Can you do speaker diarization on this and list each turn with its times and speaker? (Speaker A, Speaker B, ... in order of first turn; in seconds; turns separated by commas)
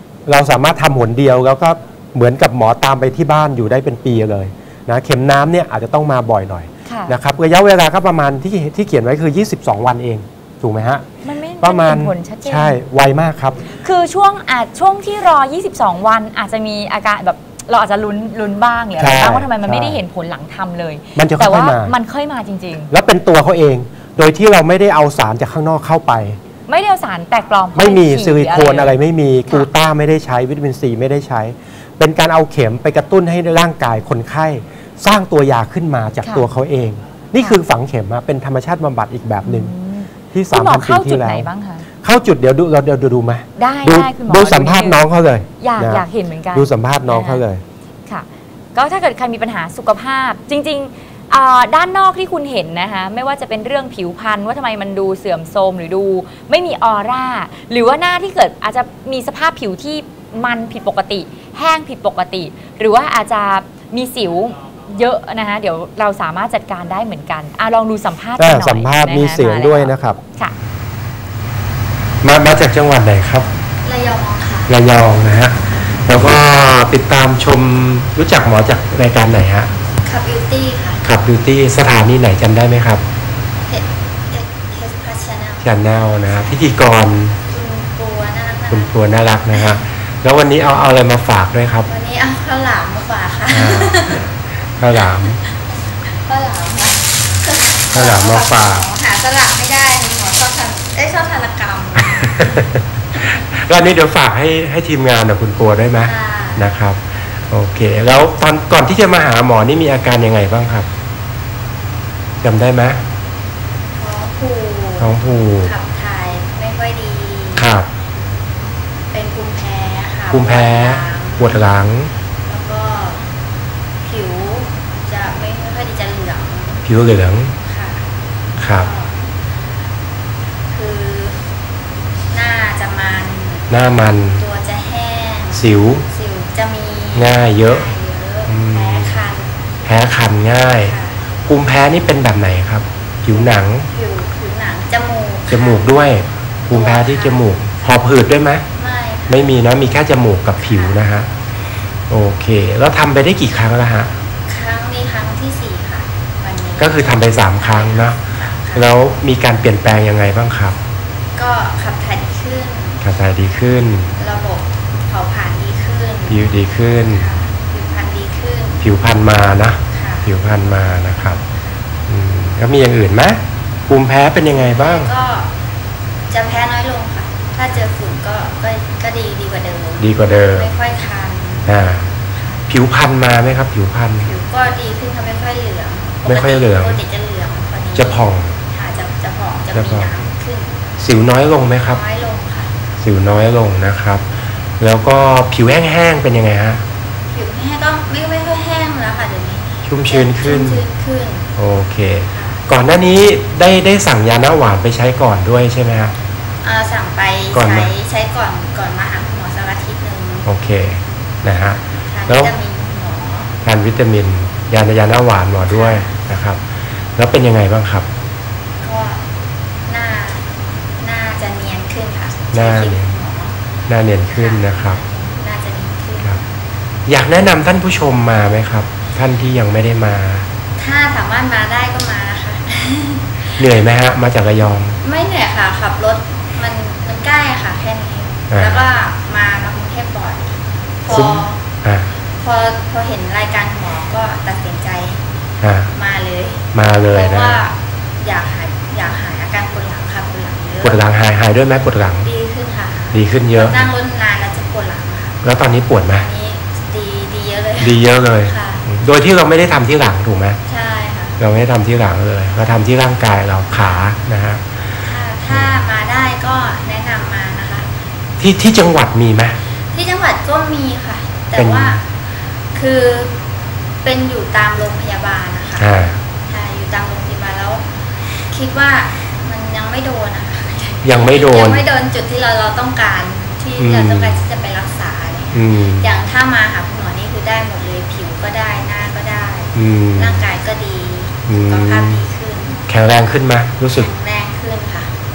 Speaker A: 0.2-11.1, Speaker B: 6.8-7.1, Speaker B: 11.2-12.8, Speaker A: 11.6-13.6, Speaker B: 13.7-22.9, Speaker A: 19.0-20.0, Speaker A: 21.1-21.9, Speaker A: 22.9-26.4, Speaker B: 26.7-28.9, Speaker A: 27.7-39.7, Speaker B: 39.4-41.9, Speaker A: 40.3-41.5, Speaker A: 42.0-47.6, Speaker B: 43.5-45.0, Speaker B: 45.6-47.4, Speaker B: 48.1-70.5, Speaker A: 68.4-70.2, Speaker A: 72.2-73.5, Speaker C: 73.8-74.7, Speaker A: 74.7-79.7, Speaker C: 75.7-76.1, Speaker C: 80.0-81.0, Speaker A: 81.0-83.0, Speaker C: 83.7-85.7, Speaker A: 85.6-87.4, Speaker C: 87.5-89.8, Speaker A: 88.7-91.9, Speaker C: 91.8-94.3, Speaker A: 93.5-95.4, Speaker C: 96.2-103.2, Speaker A: 97.9-98.9, Speaker A: 102.0-110.9, Speaker C: 106.0-106.7, Speaker A: 112.4-113.0, Speaker C: 114.0-117.7, Speaker A: 115.0-115.7, Speaker A: 117.5-117.9, Speaker C: 119.1-121.7, Speaker A: 120.3-122.1, Speaker C: 122.5-123.2, Speaker C: 124.0-126.8, Speaker A: 126.8-127.5, Speaker C: 127.6-128.1, Speaker A: 128.6-128.9, Speaker C: 128.7-129.2, Speaker C: 130.7-131.4, Speaker C: 132.3-133.7, Speaker A: 133.7-134.4, Speaker C: 134.4-139.7, Speaker A: 135.5-136.1, Speaker A: 137.1-137.9, Speaker A: 138.5-139.2, Speaker A: 139.8-140.9, Speaker C: 140.5-141.2, Speaker A: 141.4-143.9, Speaker C: 143.3-147.4, Speaker A: 145.5-148.6, Speaker C: 148.7-149.6, Speaker A: 149.3-151.3, Speaker C: 150.6-151.0, Speaker A: 152.1-154.1, Speaker C: 154.5-158.9, Speaker A: 156.8-160.8, Speaker C: 161.3-163.0, Speaker A: 163.0-164.2, Speaker C: 164.2-166.5, Speaker A: 166.3-167.3, Speaker C: 167.1-168.8, Speaker A: 168.8-171.4, Speaker C: 169.9-170.3, Speaker A: 172.1-175.1, Speaker C: 174.4-175.5, Speaker C: 176.3-182.6, Speaker A: 180.0-180.7, Speaker A: 181.7-182.1, Speaker A: 182.7-184.3, Speaker C: 184.2-190.8, Speaker A: 186.2-187.0, Speaker A: 187.9-188.5, Speaker A: 189.7-190.1, Speaker A: 191.0-192.0, Speaker C: 191.7-192.7, Speaker A: 193.0-194.2, Speaker A: 194.8-196.8, Speaker C: 197.3-201.5, Speaker A: 199.8-200.8, Speaker A: 201.6-206.1, Speaker C: 202.3-202.6, Speaker C: 206.6-210.5, Speaker A: 207.5-207.9, Speaker A: 210.4-212.5, Speaker C: 212.0-213.5, Speaker A: 213.6-216.6, Speaker C: 215.6-216.1, Speaker A: 217.2-218.1, Speaker C: 218.8-219.2, Speaker C: 219.8-223.6, Speaker A: 222.5-223.2, Speaker A: 223.9-225.0, Speaker C: 224.3-226.4, Speaker A: 227.1-230.5, Speaker C: 230.8-233.7, Speaker A: 233.6-235.0, Speaker C: 235.0-241.6, Speaker A: 238.5-238.9, Speaker A: 241.1-242.1, Speaker C: 242.4-245.2, Speaker A: 245.6-245.9, Speaker C: 245.9-251.0, Speaker A: 246.7-247.6, Speaker A: 250.8-252.3, Speaker C: 252.2-255.4, Speaker A: 253.1-253.9, Speaker A: 255.4-256.3, Speaker C: 256.1-258.8, Speaker A: 257.8-260.6, Speaker C: 260.7-261.4, Speaker A: 261.4-265.0, Speaker C: 265.0-267.9, Speaker A: 265.5-265.8, Speaker A: 268.4-269.6, Speaker C: 269.9-272.1, Speaker A: 271.5-272.0, Speaker C: 272.7-273.4, Speaker C: 274.0-275.9, Speaker A: 275.8-276.2, Speaker C: 276.4-277.9, Speaker C: 278.5-292.8, Speaker A: 281.0-281.8, Speaker A: 283.8-284.4, Speaker A: 285.5-286.1, Speaker A: 289.7-290.5, Speaker A: 291.5-292.2, Speaker A: 292.9-294.1, Speaker C: 293.9-295.1